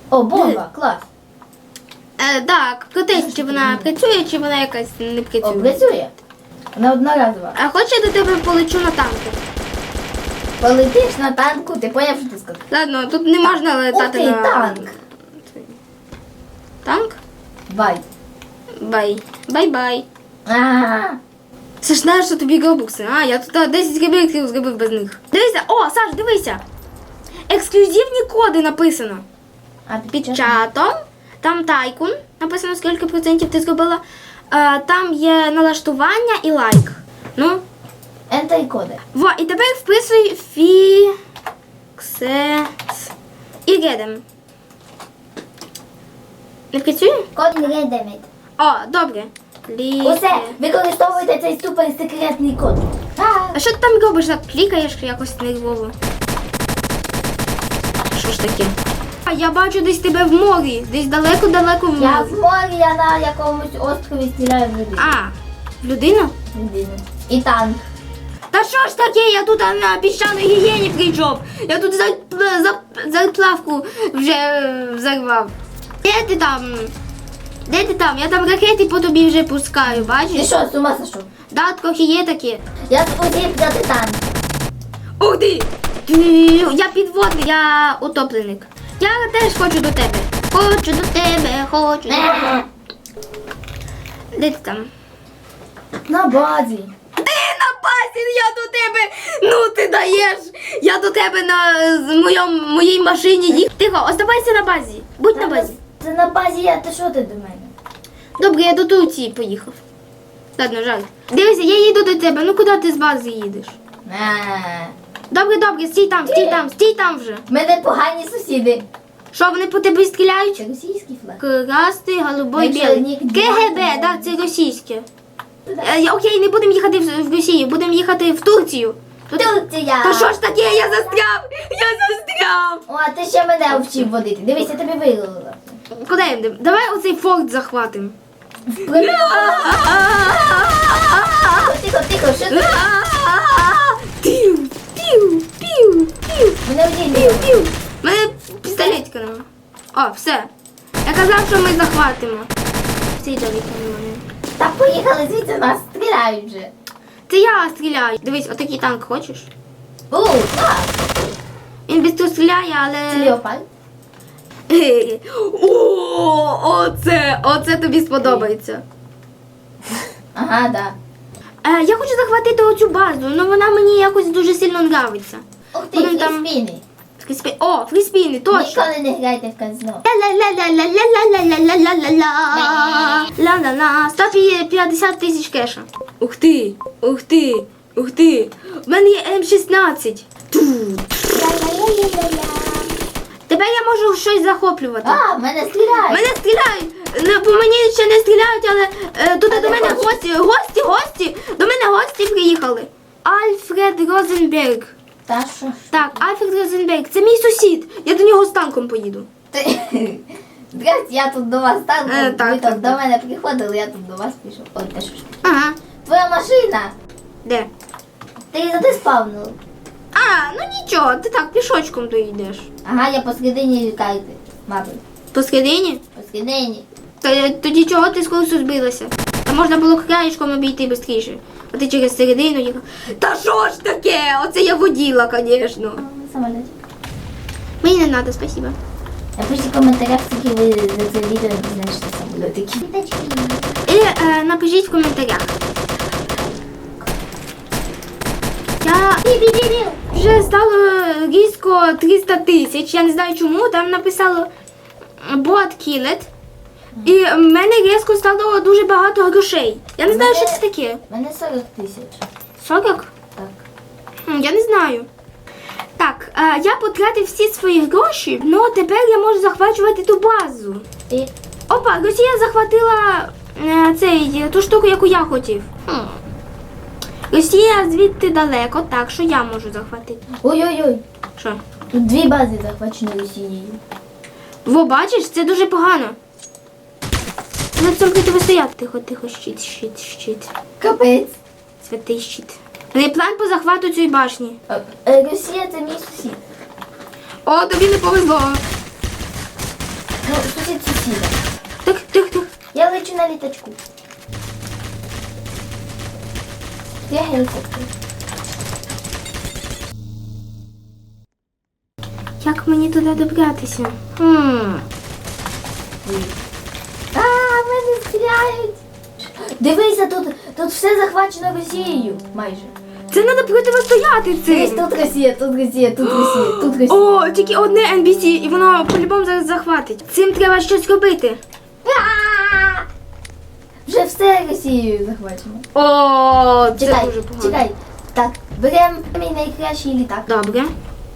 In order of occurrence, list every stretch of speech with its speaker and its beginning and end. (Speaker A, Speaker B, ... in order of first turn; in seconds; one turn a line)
Speaker A: 0.1-1.1
Speaker B: 0.3-0.6
Speaker B: 2.2-5.9
Speaker A: 3.1-3.9
Speaker A: 5.4-6.1
Speaker A: 6.7-7.6
Speaker B: 7.5-9.4
Speaker A: 10.6-12.6
Speaker B: 12.7-15.8
Speaker A: 13.9-14.9
Speaker B: 16.8-17.2
Speaker A: 17.7-18.0
Speaker B: 18.8-20.0
Speaker A: 20.4-21.2
Speaker B: 21.8-26.6
Speaker B: 27.5-29.2
Speaker A: 29.9-30.6
Speaker B: 30.1-37.6
Speaker A: 38.3-39.0
Speaker B: 39.1-41.2
Speaker B: 42.0-43.1
Speaker B: 43.6-44.2
Speaker B: 46.7-47.3
Speaker A: 47.3-48.2
Speaker B: 48.6-50.6
Speaker A: 50.0-53.6
Speaker B: 53.5-55.9
Speaker B: 58.1-62.4
Speaker A: 62.0-65.1
Speaker B: 65.0-66.3
Speaker A: 66.5-67.8
Speaker B: 68.5-75.5
Speaker B: 76.0-76.9
Speaker B: 77.7-80.5
Speaker A: 79.9-81.3
Speaker B: 81.5-82.7
Speaker A: 82.9-84.4
Speaker B: 85.2-92.6
Speaker A: 92.1-92.7
Speaker B: 94.3-94.9
Speaker A: 96.1-96.9
Speaker B: 97.2-105.7
Speaker A: 105.3-107.7
Speaker B: 108.4-109.8
Speaker B: 110.5-113.8
Speaker A: 114.0-114.9
Speaker B: 115.3-117.4
Speaker A: 116.2-116.7
Speaker A: 117.5-118.8
Speaker B: 119.3-120.6
Speaker A: 120.6-121.4
Speaker B: 121.4-125.0
Speaker A: 122.5-124.4
Speaker B: 125.7-132.8
Speaker A: 129.3-130.3
Speaker A: 132.9-135.8
Speaker B: 133.7-134.1
Speaker B: 135.9-138.2
Speaker A: 138.7-140.1
Speaker B: 138.8-141.7
Speaker A: 141.5-142.9
Speaker B: 142.5-146.6
Speaker A: 146.6-147.7
Speaker B: 147.1-150.5
Speaker B: 151.0-152.5
Speaker B: 153.2-154.2
Speaker A: 154.6-156.7
Speaker B: 157.3-159.5
Speaker A: 160.1-160.9
Speaker B: 161.9-163.4
Speaker A: 163.1-163.7
Speaker B: 164.7-168.8
Speaker A: 168.2-168.5
Speaker A: 170.3-170.9
Speaker B: 171.6-176.5
Speaker A: 175.7-176.8
Speaker B: 177.2-178.9
Speaker A: 178.5-180.0
Speaker B: 180.0-191.6
Speaker A: 182.5-183.3
Speaker A: 191.3-192.9
Speaker B: 193.5-195.2
Speaker A: 195.0-196.3
Speaker B: 196.1-204.9
Speaker A: 199.5-200.2
Speaker A: 205.3-206.3
Speaker B: 205.9-209.3
Speaker A: 209.5-215.3
Speaker B: 212.1-213.0
Speaker B: 215.4-215.8
Speaker A: 216.0-216.9
Speaker A: 218.5-219.6
Speaker B: 220.1-222.7
Speaker A: 222.8-225.0
Speaker B: 225.3-226.0
Speaker A: 226.1-226.8
Speaker B: 227.2-236.0
Speaker A: 235.8-236.7
Speaker B: 237.8-238.8
Speaker A: 239.4-243.8
Speaker B: 243.8-245.5
Speaker B: 248.8-249.3
Speaker A: 249.2-250.0
Speaker B: 250.0-254.5
Speaker B: 255.2-256.3
Speaker B: 257.0-261.0
Speaker A: 260.1-262.2
Speaker B: 262.6-263.1
Speaker A: 263.3-263.6
Speaker B: 264.2-265.1
Speaker B: 266.0-270.9
Speaker B: 271.7-276.2
Speaker B: 277.3-280.2
Speaker A: 280.4-281.0
Speaker A: 281.9-283.8
Speaker B: 284.6-286.1
Speaker B: 287.7-290.5
Speaker A: 290.8-291.4
Speaker B: 291.8-294.6
Speaker A: 294.7-296.4
Speaker B: 297.4-298.6
Speaker A: 300.2-301.4
Speaker B: 301.8-302.5
Speaker A: 302.7-303.8
Speaker A: 307.1-307.9
Speaker B: 312.4-314.9
Speaker A: 316.0-316.3
Speaker A: 317.1-318.8
Speaker A: 319.5-322.7
Speaker B: 323.1-324.9
Speaker A: 324.4-327.1
Speaker B: 326.0-331.4
Speaker A: 331.8-332.9
Speaker A: 333.9-335.6
Speaker B: 335.7-337.6
Speaker A: 336.7-340.3
Speaker B: 340.3-340.7